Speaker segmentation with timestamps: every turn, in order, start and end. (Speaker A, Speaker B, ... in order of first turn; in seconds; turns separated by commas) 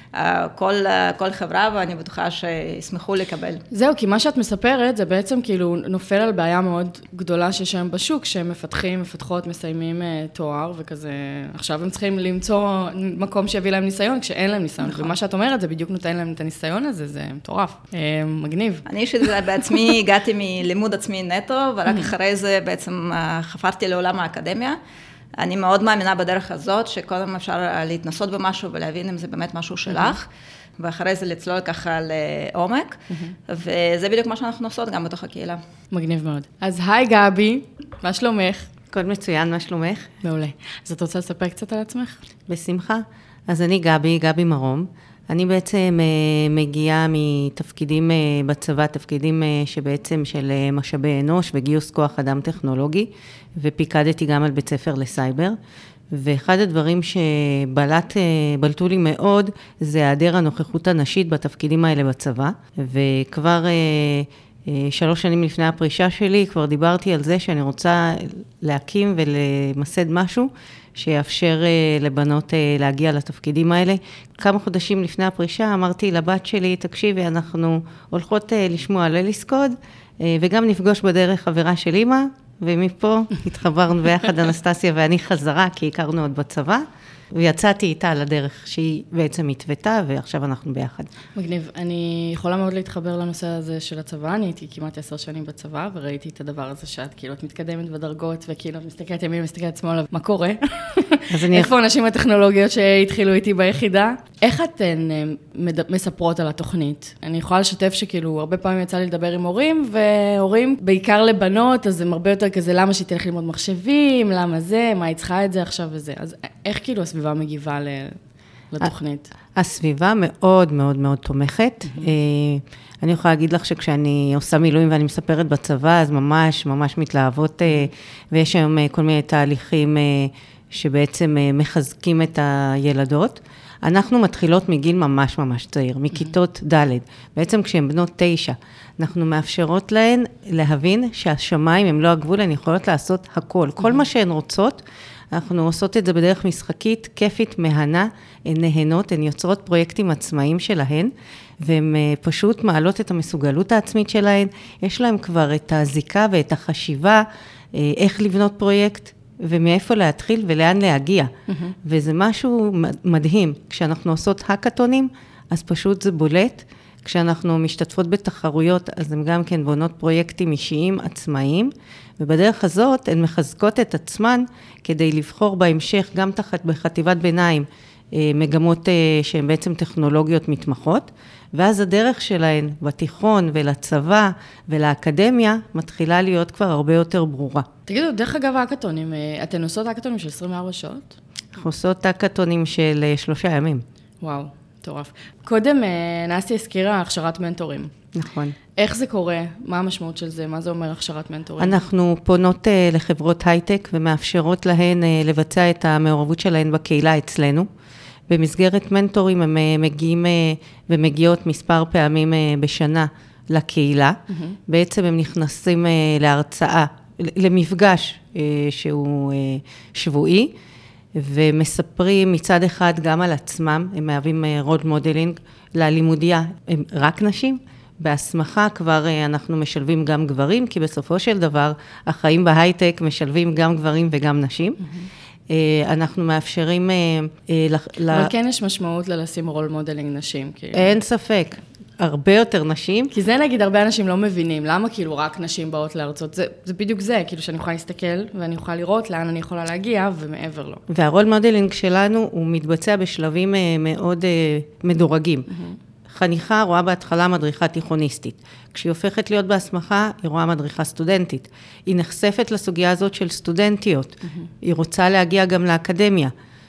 Speaker A: 0.1-3.6, Speaker B: 3.7-18.9, Speaker A: 14.8-15.1, Speaker A: 18.9-24.8, Speaker A: 25.4-30.3, Speaker B: 29.9-30.1, Speaker A: 30.8-35.6, Speaker B: 35.9-38.7, Speaker C: 38.9-40.1, Speaker B: 40.2-42.2, Speaker C: 42.5-55.6, Speaker C: 56.1-91.1, Speaker B: 91.3-118.2, Speaker C: 101.3-101.7, Speaker B: 118.7-119.3, Speaker C: 119.5-144.8, Speaker C: 145.3-161.3, Speaker B: 161.5-161.8, Speaker C: 161.8-187.7, Speaker B: 187.9-191.1, Speaker C: 191.6-193.8, Speaker B: 194.2-197.9, Speaker C: 198.1-198.6, Speaker B: 198.8-201.8, Speaker C: 201.6-207.7, Speaker C: 208.3-220.5, Speaker B: 214.3-214.6, Speaker C: 221.2-234.8, Speaker B: 234.8-235.1, Speaker C: 235.5-238.3, Speaker B: 238.1-240.9, Speaker C: 240.7-243.1, Speaker B: 243.1-250.8, Speaker C: 250.9-255.5, Speaker B: 255.5-255.8, Speaker C: 256.1-266.3, Speaker B: 264.2-264.5